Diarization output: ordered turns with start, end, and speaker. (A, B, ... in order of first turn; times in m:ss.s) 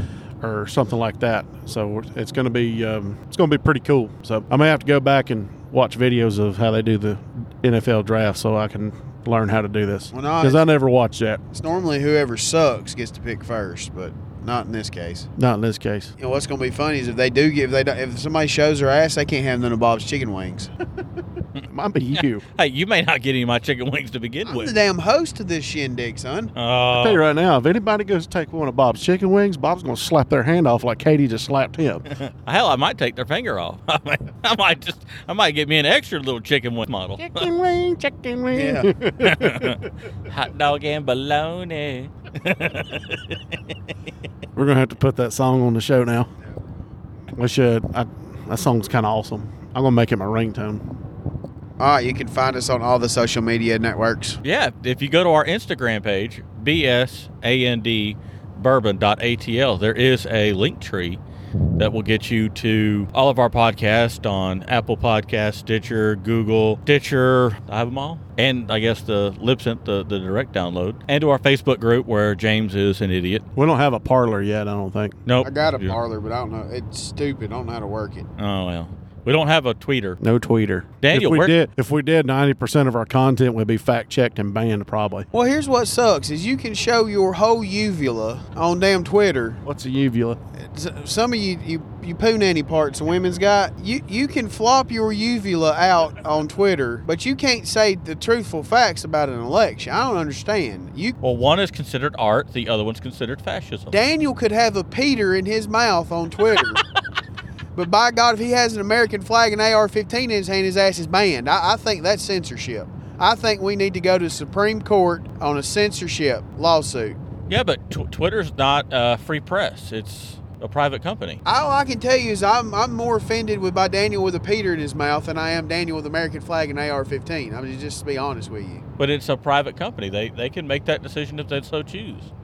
0:00.4-0:11.4 A
0:10.1-0:10.7 B
0:11.5-0:15.3 B
0:15.4-0:16.1 A
0:16.2-0:20.7 B
0:21.6-0:22.4 A
0:22.6-0:24.7 C
0:24.5-0:26.5 B
0:26.6-0:27.2 C
0:26.9-0:32.1 A
0:32.2-0:37.5 C
0:37.2-0:39.8 A
0:38.5-0:38.9 B
0:39.2-0:43.8 C
0:44.6-0:46.3 A
0:47.3-0:50.9 A
0:51.8-0:54.4 B
0:54.4-1:01.2 C
1:01.8-1:13.4 C
1:13.6-1:15.2 A
1:15.3-1:16.0 C
1:15.4-1:18.3 B
1:18.4-1:20.2 C
1:20.2-1:25.3 A
1:21.0-1:21.6 C
1:25.3-1:29.6 B
1:29.6-1:30.4 A
1:30.6-1:41.2 B
1:41.2-1:44.0 C
1:43.9-1:46.8 B
1:47.8-1:57.2 B
1:57.5-2:01.4 C
2:01.4-2:08.8 B
2:09.0-2:12.3 C